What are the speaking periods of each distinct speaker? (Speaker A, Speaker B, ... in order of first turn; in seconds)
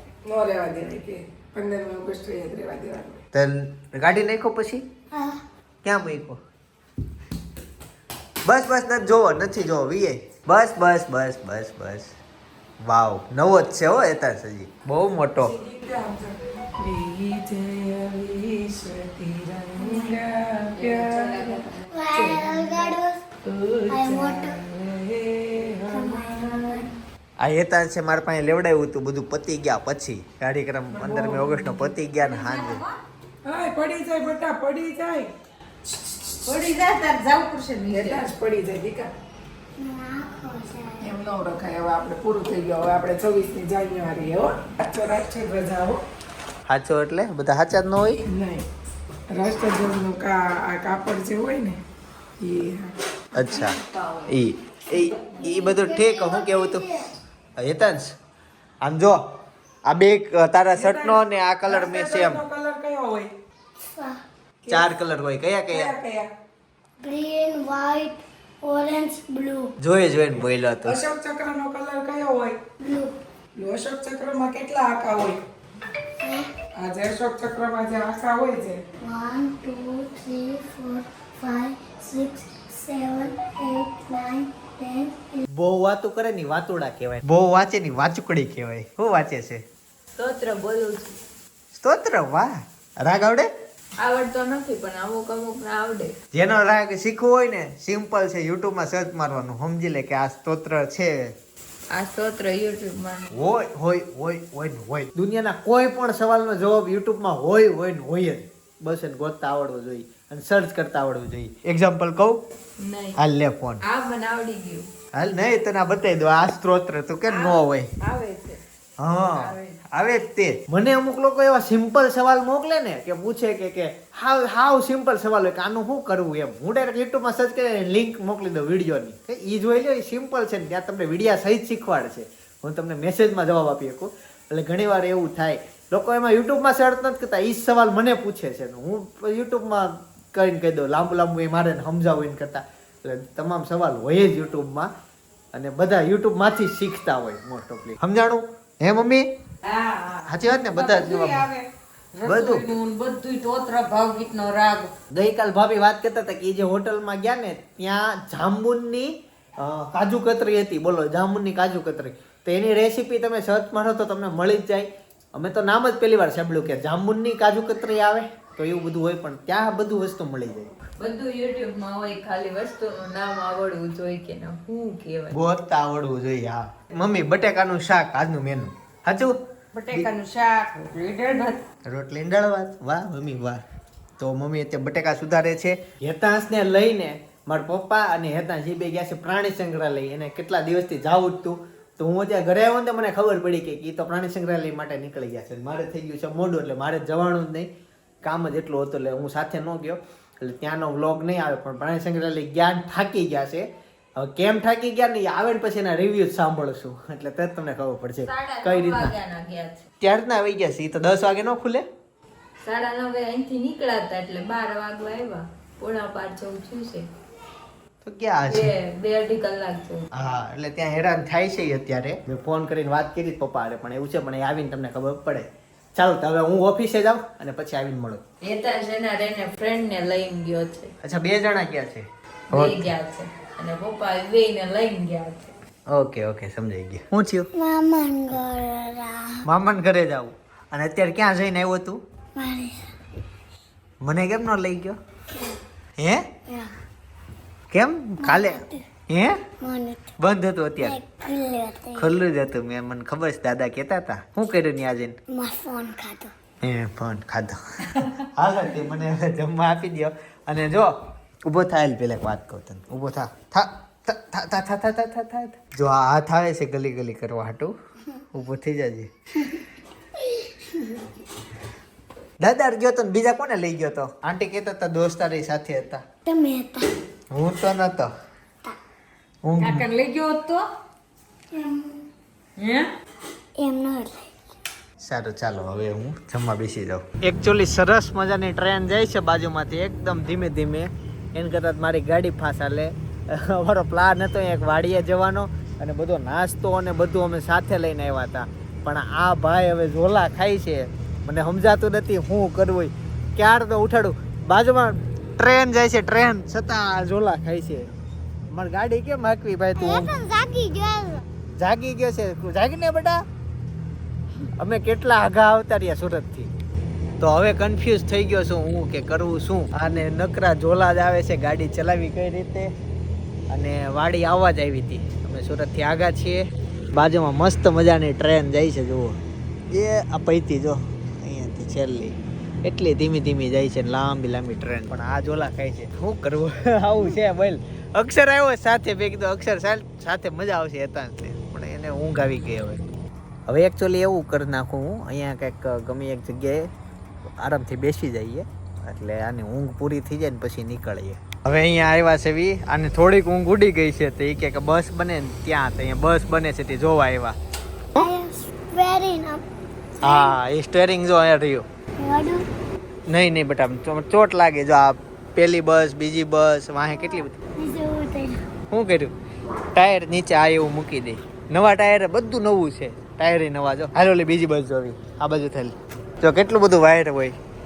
Speaker A: 0.2-3.2, 15.3-22.9, 23.4-26.9, 31.0-31.4, 33.4-35.3, 36.2-36.6, 37.9-39.1, 41.0-46.0, 48.2-48.7, 49.3-51.8, 52.4-52.9, 60.7-63.3, 64.7-64.9, 65.7-66.3, 70.8-72.6, 73.5-75.4, 76.8-78.8
Speaker B: 3.3-4.8, 5.8-6.4, 8.4-12.1, 12.8-15.6, 27.4-32.8, 46.7-48.2, 53.3-53.7, 54.3-56.8, 57.6-58.1, 58.8-59.2, 59.9-62.4, 64.7-65.9, 69.8-71.0, 85.5-89.6, 91.8-93.5, 96.3-101.3, 103.3-112.4, 113.2-113.8, 115.1-117.9, 119.0-144.9, 145.5-149.3, 150.3-151.5, 152.2-152.7, 155.1-170.7, 175.3-179.4, 181.8-183.6, 184.2-197.7, 198.2-209.1, 210.0-211.8, 218.0-218.7, 220.1-228.2, 231.0-232.9, 235.9-237.5, 239.4-242.0, 244.0-245.0, 246.0-246.2, 247.7-249.4, 250.2-251.0, 251.9-255.2, 256.6-267.7, 268.3-269.1, 272.4-276.0, 277.3-278.1, 279.4-279.9, 285.0-307.9, 308.5-310.1, 311.6-313.2, 314.6-316.5, 317.2-322.7, 323.5-329.2, 329.7-342.8, 343.5-346.7, 347.4-357.4, 360.0-361.6, 363.1-367.3, 368.7-369.1, 369.7-377.4
Speaker C: 5.1-5.4, 21.9-23.2, 23.9-24.6, 39.8-41.1, 55.4-57.0, 63.9-64.2, 67.0-69.7, 72.8-73.1, 76.2-76.5, 79.0-85.4, 237.5-239.4, 242.3-242.9, 248.2-248.8, 249.6-250.1, 250.8-252.1, 255.3-256.3, 276.2-276.9, 281.5-282.0, 283.6-284.3, 309.8-311.2, 358.0-359.4, 360.0-360.4, 362.0-362.4, 367.0-368.4
Speaker D: 19.9-20.2, 20.7-21.9, 31.3-33.0, 36.4-38.2, 53.5-54.2, 117.3-118.6, 119.3-119.8, 149.6-154.9, 179.7-181.6, 279.6-280.6, 282.6-282.9
Speaker E: 90.2-91.2, 94.0-96.1, 101.9-103.5, 112.8-113.2, 113.8-114.9, 171.0-175.4, 181.3-181.6, 208.2-209.8, 212.6-217.1, 218.4-220.1, 228.4-230.9, 232.5-235.5